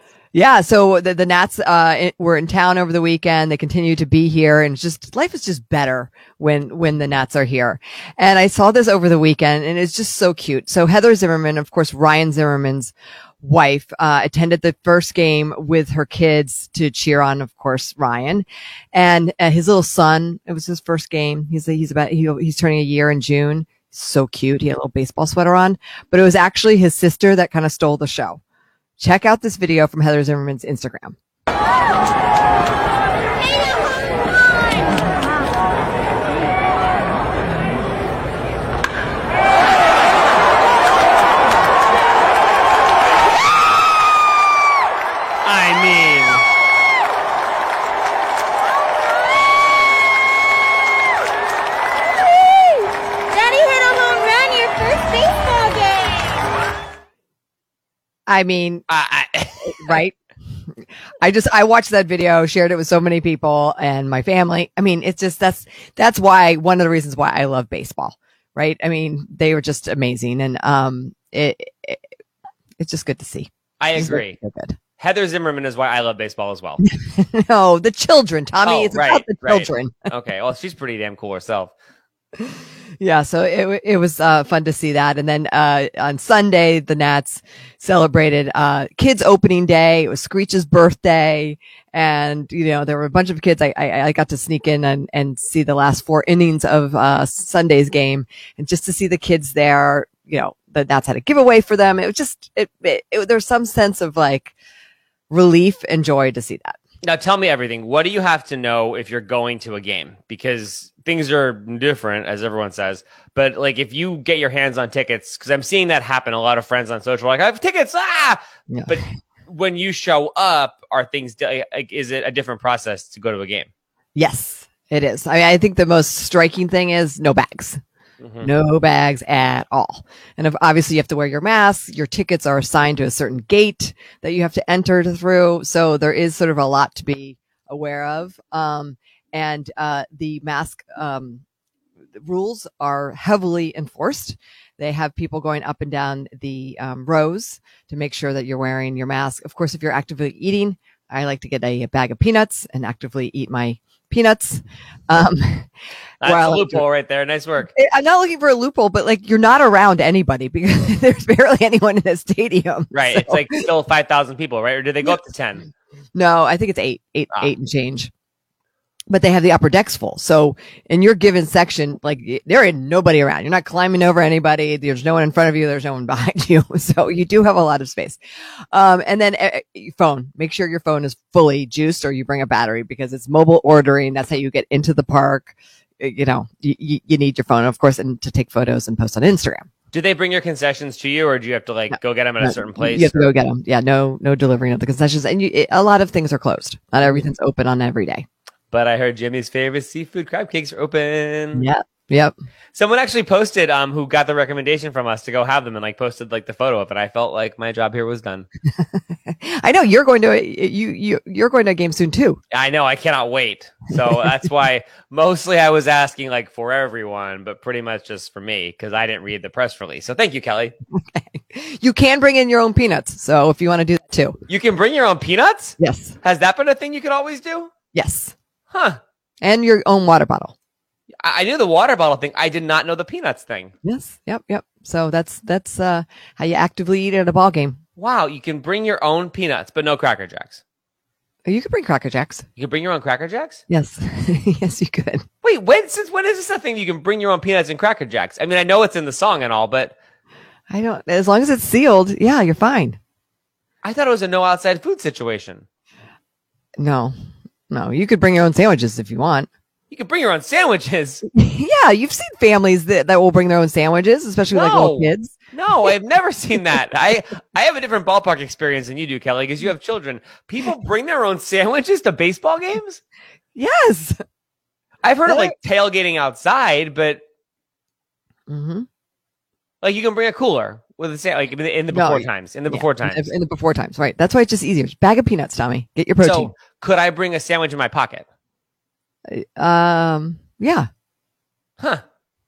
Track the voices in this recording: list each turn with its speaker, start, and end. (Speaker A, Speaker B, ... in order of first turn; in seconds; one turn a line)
Speaker A: 0.3-28.4
Speaker A: 29.0-31.2
Speaker B: 45.4-46.5
Speaker C: 53.3-56.4
Speaker A: 58.3-58.9
Speaker B: 58.9-60.0
Speaker A: 59.6-60.2
Speaker A: 61.2-72.0
Speaker A: 72.8-74.8
Speaker B: 73.8-74.4
Speaker B: 75.0-76.8
Speaker A: 76.8-80.0
Speaker B: 78.6-81.7
Speaker A: 82.4-104.5
Speaker A: 105.3-106.8
Speaker B: 107.0-123.7
Speaker A: 118.7-119.0
Speaker A: 124.2-127.8
Speaker B: 128.2-128.5
Speaker A: 128.4-141.4
Speaker A: 142.2-155.7
Speaker B: 156.2-157.7
Speaker A: 156.2-156.8
Speaker A: 157.8-163.7
Speaker B: 162.9-165.7
Speaker A: 166.2-168.1
Speaker A: 169.1-178.2
Speaker A: 178.7-189.7
Speaker B: 189.9-193.3
Speaker A: 191.9-198.3
Speaker B: 198.7-201.7
Speaker A: 201.5-202.3
Speaker B: 202.7-208.5
Speaker A: 208.8-212.4
Speaker B: 212.5-220.7
Speaker A: 220.9-224.4
Speaker B: 224.5-227.7
Speaker A: 225.8-226.2
Speaker A: 227.9-228.3
Speaker B: 228.7-229.0
Speaker A: 229.4-230.6
Speaker B: 231.2-233.7
Speaker A: 233.8-237.8
Speaker B: 238.0-240.6
Speaker A: 241.4-242.5
Speaker B: 242.6-243.6
Speaker A: 243.7-245.2
Speaker B: 245.4-249.9
Speaker A: 250.7-253.0
Speaker B: 253.8-255.7
Speaker A: 256.8-257.1
Speaker A: 257.7-259.5
Speaker B: 259.9-261.2
Speaker A: 261.3-265.9
Speaker B: 264.5-273.0
Speaker A: 273.6-274.2
Speaker B: 275.0-277.2
Speaker A: 275.3-275.6
Speaker A: 278.5-278.9
Speaker B: 279.8-283.2
Speaker A: 281.9-286.5
Speaker B: 286.2-288.3
Speaker A: 289.3-290.9